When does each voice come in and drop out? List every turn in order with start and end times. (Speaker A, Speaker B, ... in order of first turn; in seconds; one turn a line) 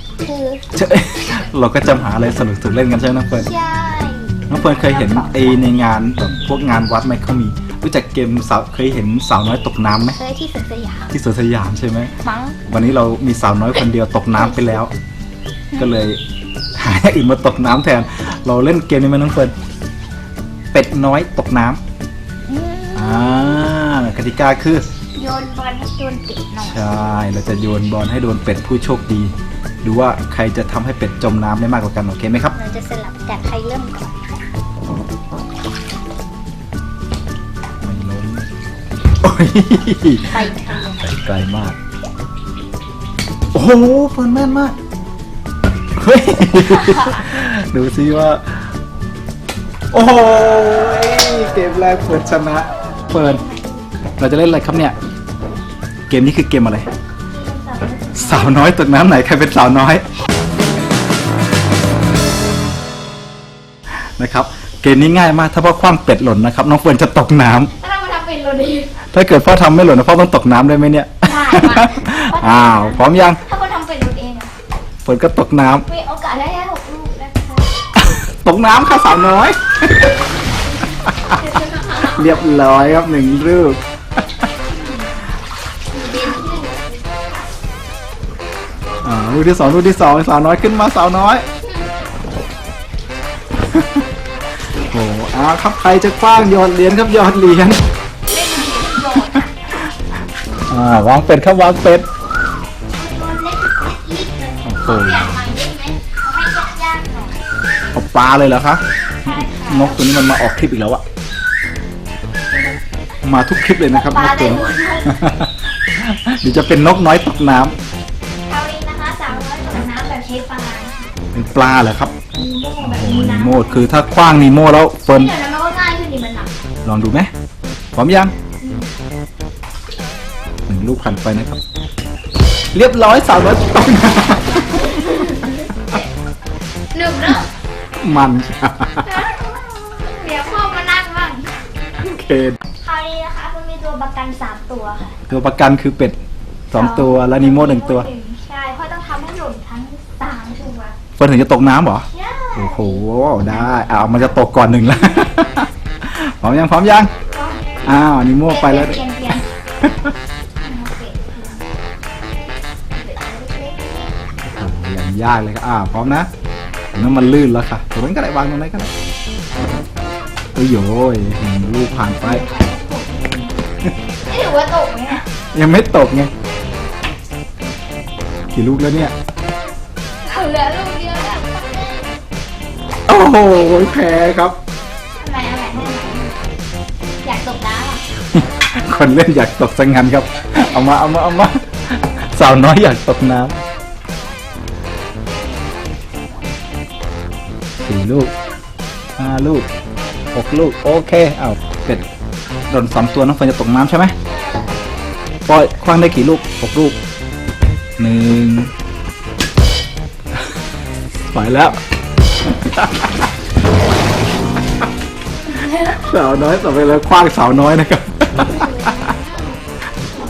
Speaker A: 0.2-0.6
Speaker B: 0.7-3.5
Speaker A: 3.3-5.7
Speaker B: 4.5-10.2
Speaker A: 10.1-11.1
Speaker B: 11.1-12.1
Speaker A: 12.2-12.6
Speaker B: 12.7-14.9
Speaker A: 14.4-14.7
Speaker B: 15.8-16.2
Speaker B: 16.8-19.6
Speaker B: 20.7-21.8
Speaker A: 22.5-23.6
Speaker B: 23.0-24.9
Speaker A: 25.2-26.9
Speaker B: 26.6-32.5
Speaker A: 32.5-34.2
Speaker B: 37.8-38.5
Speaker B: 39.2-40.5
Speaker A: 40.2-41.1
Speaker B: 41.0-41.8
Speaker B: 43.5-44.8
Speaker B: 46.0-48.4
Speaker A: 46.8-47.3
Speaker B: 49.9-53.4
Speaker A: 53.1-53.9
Speaker B: 54.2-55.0
Speaker B: 56.1-56.9
Speaker A: 57.3-58.6
Speaker B: 58.2-60.0
Speaker B: 64.2-67.7
Speaker A: 67.8-69.0
Speaker B: 69.1-73.4
Speaker A: 71.2-74.5
Speaker B: 75.0-75.9
Speaker A: 75.9-77.7
Speaker B: 78.4-80.1
Speaker A: 81.3-82.4
Speaker B: 82.1-83.8
Speaker A: 84.7-85.3
Speaker A: 85.9-87.2
Speaker B: 89.0-91.5
Speaker A: 91.6-91.9
Speaker B: 93.6-94.0
Speaker B: 94.9-97.8
Speaker A: 98.3-99.5
Speaker B: 100.7-102.1
Speaker A: 102.9-107.3
Speaker B: 104.7-105.4
Speaker B: 107.9-111.0
Speaker A: 109.1-110.0
Speaker B: 113.2-117.8
Speaker A: 113.9-115.2
Speaker A: 118.5-121.1
Speaker B: 121.3-122.1
Speaker A: 122.3-124.3
Speaker B: 122.8-125.3
Speaker A: 125.1-126.5
Speaker B: 126.8-127.3
Speaker B: 128.0-128.3
Speaker A: 128.6-128.9
Speaker B: 130.7-131.6
Speaker B: 132.7-135.4
Speaker A: 134.6-136.1
Speaker A: 136.9-137.5
Speaker B: 138.0-139.2
Speaker A: 139.0-141.6
Speaker B: 142.0-142.6
Speaker A: 142.8-145.2
Speaker B: 145.3-146.2
Speaker B: 146.7-148.1
Speaker A: 146.7-151.0
Speaker B: 151.2-152.1
Speaker A: 152.1-154.2
Speaker B: 152.6-157.1
Speaker A: 157.3-157.8
Speaker B: 157.8-159.0
Speaker A: 158.5-159.5
Speaker A: 160.6-161.7
Speaker A: 162.9-164.2
Speaker B: 164.5-166.3
Speaker B: 166.9-168.9
Speaker B: 170.6-172.4
Speaker A: 172.2-173.6
Speaker A: 174.2-175.2
Speaker B: 175.5-176.3
Speaker B: 178.5-179.1
Speaker A: 180.2-182.1
Speaker B: 183.1-184.6
Speaker A: 185.2-186.4
Speaker A: 187.2-188.1
Speaker B: 188.3-193.6
Speaker B: 197.8-198.3
Speaker B: 199.2-199.7
Speaker B: 200.3-202.1
Speaker B: 202.7-204.2
Speaker A: 204.3-204.7
Speaker B: 205.5-207.0
Speaker B: 208.0-208.7
Speaker B: 211.3-211.8
Speaker B: 212.5-213.3
Speaker A: 215.5-216.0
Speaker B: 215.8-219.1
Speaker A: 218.5-219.2